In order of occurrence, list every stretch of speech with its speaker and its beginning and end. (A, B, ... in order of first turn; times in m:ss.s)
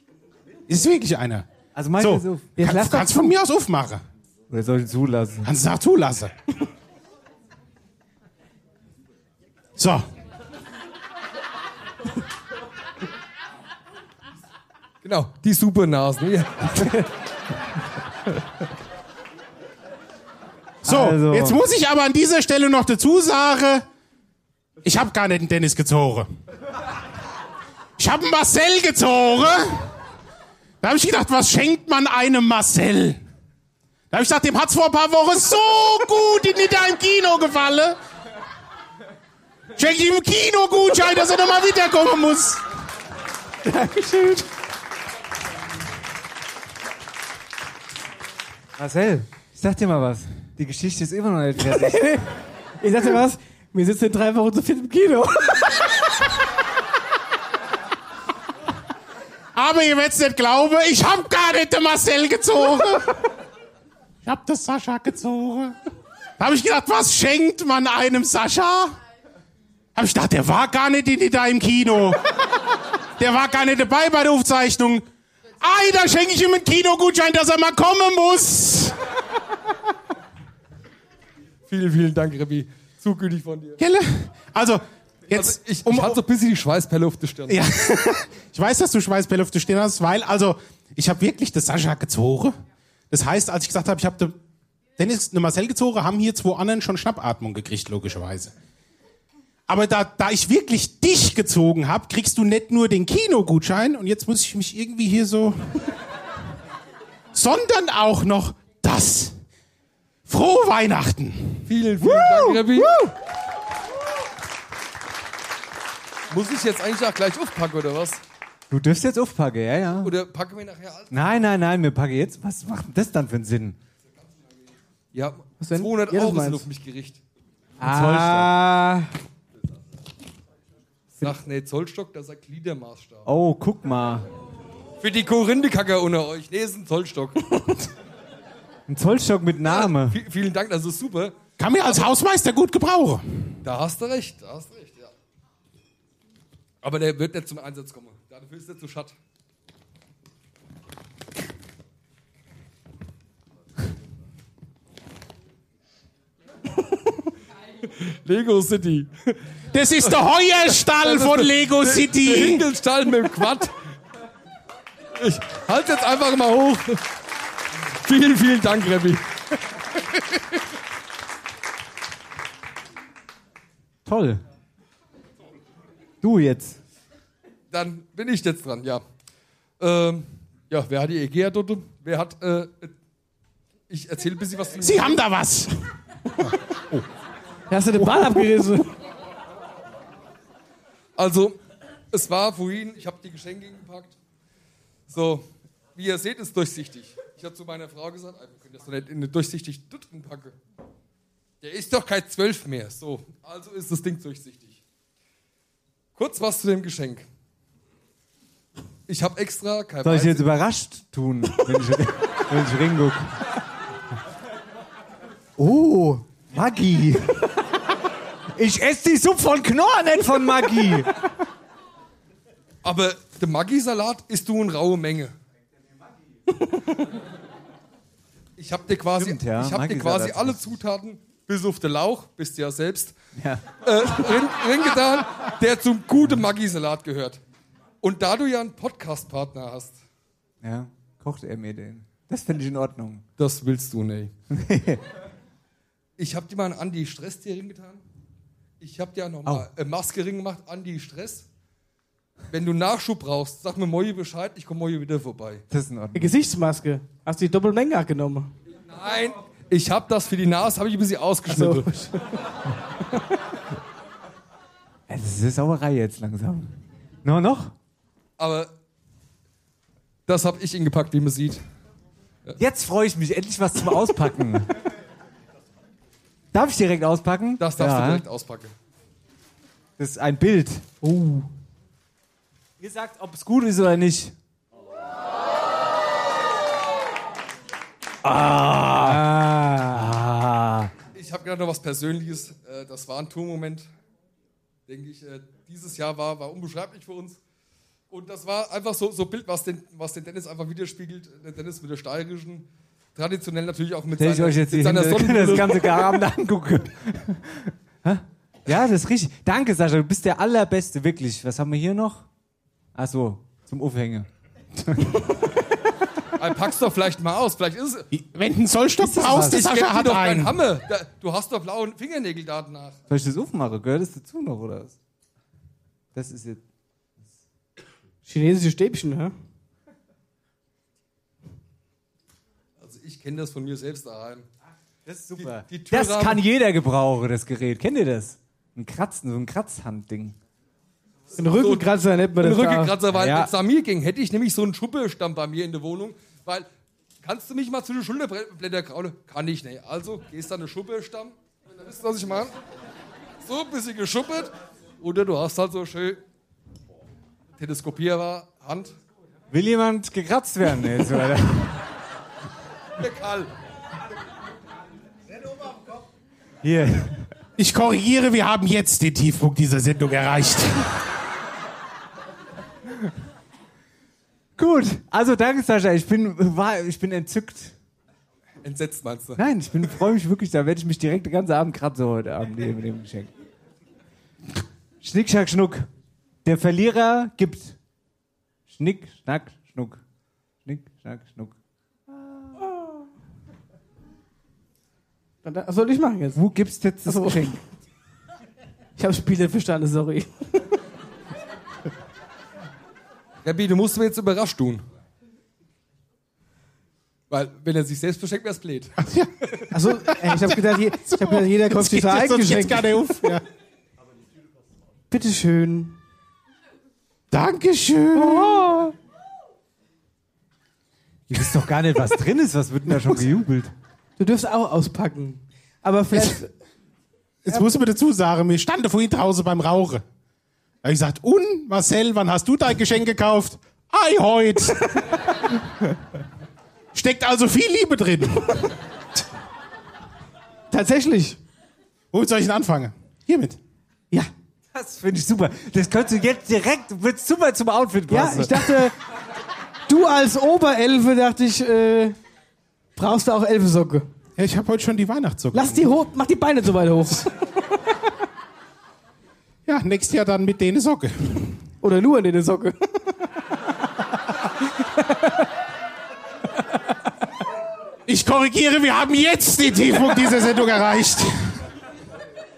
0:00.7-0:04.0 A
0:01.7-0:02.5 B
0:02.6-0:03.4 C
0:04.5-0:05.5 B
0:05.4-0:06.3 A
0:09.8-0:10.1 A
0:15.0-0:17.0 D
0:20.8-0:23.8 A
0:20.8-0:21.6 B
0:24.8-0:26.3 A
0:28.0-0:29.9 A
0:30.8-0:33.2 A
0:34.1-0:38.0 A
0:39.8-0:42.6 A
0:43.6-0:44.4 C
0:48.8-0:52.2 B
0:51.8-0:52.3 C
0:52.8-0:56.0 C
0:59.5-1:03.1 A
1:04.2-1:05.8 A
1:06.4-1:09.0 A
1:09.9-1:12.2 A
1:13.2-1:15.0 A
1:15.6-1:19.0 A
1:21.7-1:23.8 D
1:23.8-1:26.2 A
1:25.3-1:27.7 D
1:27.5-1:32.6 A
1:33.1-1:34.4 A
1:35.0-1:38.5 A
1:39.7-1:45.6 A
1:47.3-1:49.4 A
1:50.3-1:51.7 A
1:51.6-1:52.9 D
1:52.8-1:53.1 C
1:56.3-1:58.2 D
1:58.7-2:00.1 B
2:00.0-2:01.2 D
2:01.1-2:03.8 B
2:05.1-2:07.2 D
2:05.6-2:06.6 C
2:07.8-2:08.5 B
2:07.8-2:09.1 C
2:11.2-2:13.3 D
2:13.2-2:14.3 B
2:15.0-2:17.4 D
2:18.9-2:20.2 B
2:19.6-2:22.1 D
2:21.6-2:23.5 A
2:23.6-2:25.1 D
2:26.8-2:29.1 D
2:38.1-2:39.4 D
2:39.7-2:42.6 A
2:40.9-2:43.7 D
2:45.2-2:47.0 D
2:48.0-2:49.2 D
2:54.0-2:54.4 B
2:56.2-2:56.8 B
2:57.7-2:59.0 D
2:59.8-3:02.9 D
3:03.9-3:05.2 D
3:04.8-3:05.7 A
3:06.4-3:07.0 A
3:07.7-3:08.9 C
3:08.0-3:08.5 A
3:11.2-3:11.6 D
3:12.1-3:14.1 D
3:15.1-3:20.6 D
3:21.6-3:24.8 D
3:26.2-3:27.2 D
3:29.1-3:30.5 D
3:30.0-3:33.4 B
3:35.6-3:37.4 B
3:38.5-3:41.1 B
3:42.8-3:45.3 D
3:48.6-3:53.2 D
3:49.1-3:50.8 B
3:53.3-3:53.6 B
3:53.8-3:57.4 D
3:58.0-4:00.0 D
4:00.6-4:03.2 B
4:03.4-4:04.3 D
4:04.5-4:05.0 B
4:06.2-4:08.0 D
4:08.8-4:11.4 D
4:12.5-4:15.6 D
4:15.7-4:16.3 B
4:16.1-4:18.5 C
4:18.9-4:21.9 D
4:21.5-4:22.2 C
4:25.1-4:27.7 B
4:28.4-4:28.7 D
4:30.3-4:31.6 D
4:32.6-4:34.7 B
4:36.5-4:38.2 B
4:37.6-4:38.7 D
4:40.0-4:40.8 B
4:41.0-4:41.5 C
4:42.8-4:44.3 B
4:48.2-4:49.2 B
4:49.0-4:50.1 C
4:49.9-4:50.9 B
4:51.1-4:53.9 D
4:54.9-4:57.4 D
4:58.1-5:06.1 D
5:04.2-5:12.3 B
5:12.9-5:14.3 B
5:16.4-5:18.1 D
5:18.1-5:20.6 A
5:19.0-5:19.7 B
5:19.4-5:23.0 D
5:23.1-5:24.9 B
5:26.1-5:26.6 B
5:28.2-5:29.3 C
5:32.8-5:34.5 D
5:35.0-5:40.4 B
5:35.4-5:36.4 D
5:41.4-5:42.9 C
5:41.4-5:41.9 D
5:42.4-5:46.7 D
5:43.1-5:43.5 B
5:47.2-5:52.5 D
5:53.4-5:56.2 D
5:57.6-5:59.0 D
5:59.5-6:01.8 B
6:03.0-6:03.5 D
6:06.6-6:07.3 B
6:07.6-6:10.9 A
6:14.6-6:17.7 B
6:18.6-6:19.4 D
6:19.4-6:23.3 B
6:25.0-6:25.9 B
6:26.4-6:27.8 B
6:28.7-6:30.0 B
6:30.6-6:31.5 B
6:32.6-6:33.0 C
6:35.4-6:36.4 C
6:36.3-6:37.6 B
6:37.0-6:37.5 C
6:39.0-6:40.6 C
6:43.4-6:44.8 D
6:47.3-6:48.9 D
6:49.0-6:49.3 A
6:49.7-6:53.2 C
6:50.1-6:53.4 A
6:55.1-6:55.9 C
6:57.3-6:58.8 A
6:58.1-6:58.9 C
7:01.3-7:03.7 B
7:04.2-7:06.5 C
7:07.5-7:10.0 A
7:10.8-7:14.8 A
7:16.9-7:18.5 A
7:20.7-7:21.4 C
7:22.1-7:23.6 A
7:24.7-7:28.9 B
7:28.1-7:29.0 C
7:28.2-7:28.5 A
7:29.9-7:32.2 C
7:33.0-7:34.1 C
7:34.4-7:36.0 A
7:35.5-7:37.3 C
7:39.7-7:41.5 A
7:41.8-7:43.0 C
7:45.0-7:45.3 C
7:48.1-7:51.6 A